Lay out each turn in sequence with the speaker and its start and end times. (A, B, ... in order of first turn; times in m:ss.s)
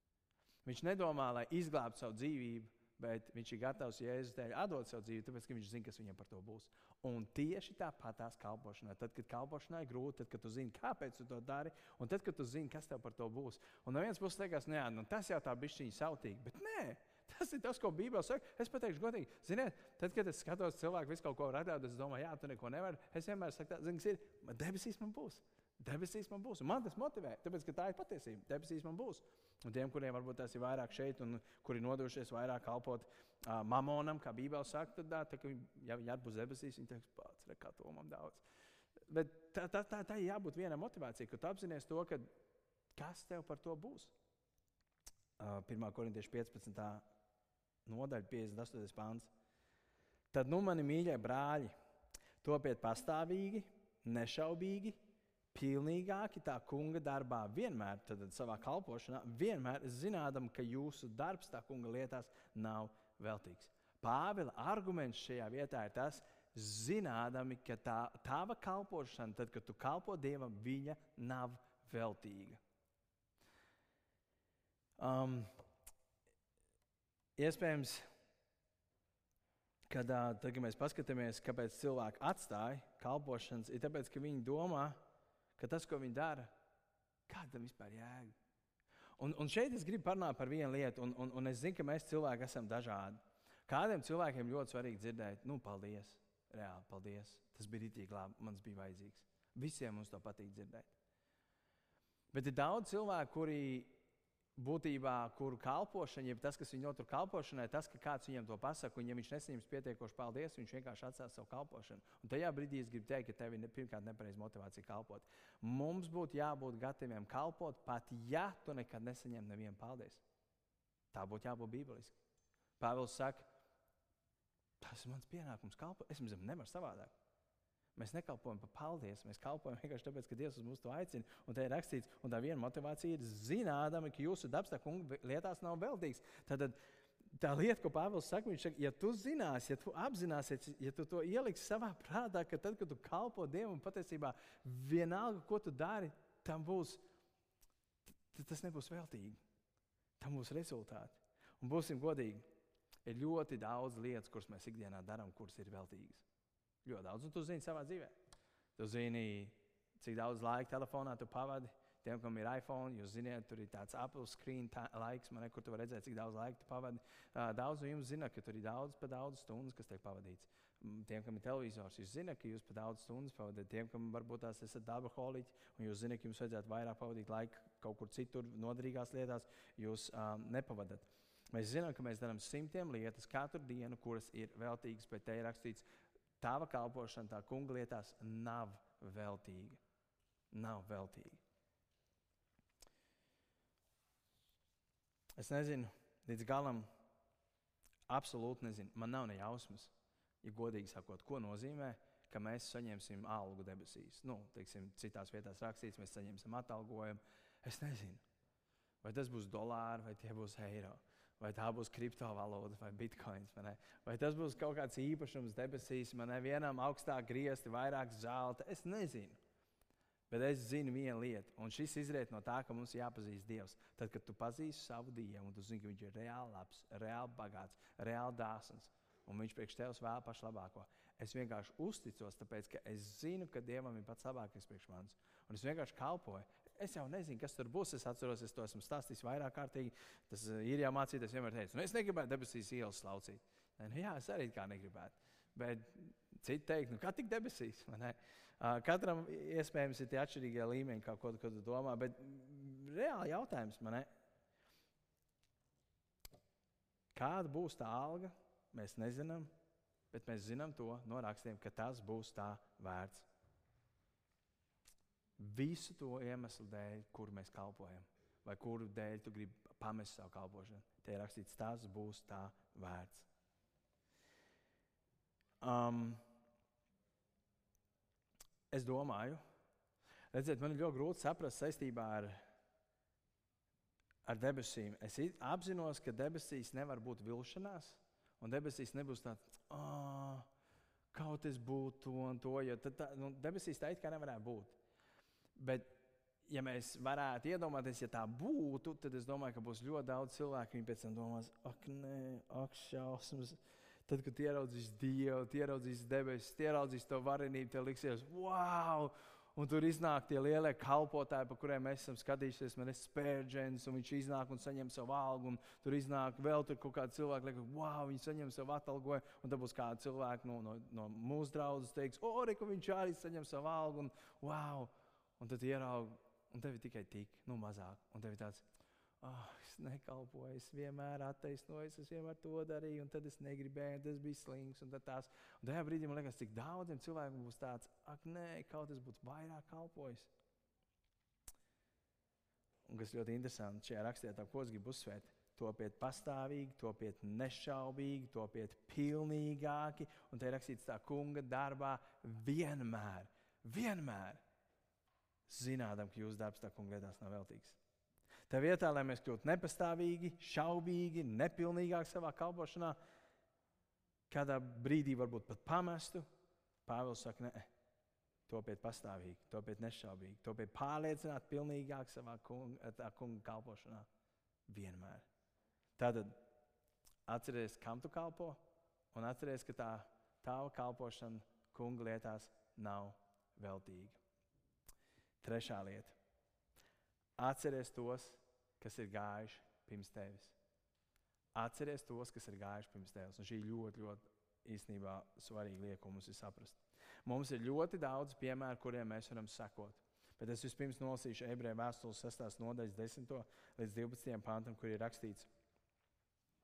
0:00.6-0:38.4 A
0:39.1-0:42.2 A
0:43.0-0:44.1 A
0:45.4-0:47.0 A
0:47.9-0:49.3 A
0:50.3-0:51.7 A
0:52.4-0:55.0 A
0:55.5-1:12.6 A
1:15.0-1:15.5 A
1:17.4-1:18.0 A
1:19.9-1:25.0 A
1:25.6-1:26.5 A
1:27.3-1:28.3 A
1:29.2-1:40.9 A
1:42.3-1:43.9 A
1:44.6-2:00.2 A
2:01.1-2:02.2 A
2:02.8-2:03.5 A
2:04.8-2:07.1 A
2:08.0-2:16.8 A
2:17.3-2:27.0 A
2:28.3-2:29.4 A
2:30.2-2:32.4 A
2:33.0-2:36.2 A
2:36.8-2:38.2 A
2:38.8-3:05.8 A
3:06.4-3:09.8 A
3:10.5-3:11.4 A
3:15.4-3:16.9 A
3:18.1-3:19.9 A
3:20.4-3:28.2 A
3:29.0-3:39.4 A
3:40.3-4:14.1 A
4:17.1-4:19.5 A
4:20.1-4:23.3 A
4:25.4-4:33.3 A
4:35.6-4:36.2 A
4:38.7-4:39.4 A
4:40.3-4:42.4 A
4:44.2-4:50.5 A
4:51.1-4:54.8 A
4:55.6-4:56.0 A
4:56.5-5:28.6 A
5:29.2-5:40.3 A
5:42.9-5:54.4 A
5:55.5-5:57.8 A
5:58.5-6:03.0 A
6:04.3-6:06.2 A
6:06.8-6:07.7 A
6:08.5-6:14.1 A
6:14.7-6:15.2 A
6:16.0-6:16.4 A
6:17.3-6:18.6 A
6:19.1-6:24.2 A
6:25.4-6:26.2 A
6:27.4-6:30.6 A
6:31.5-6:45.5 A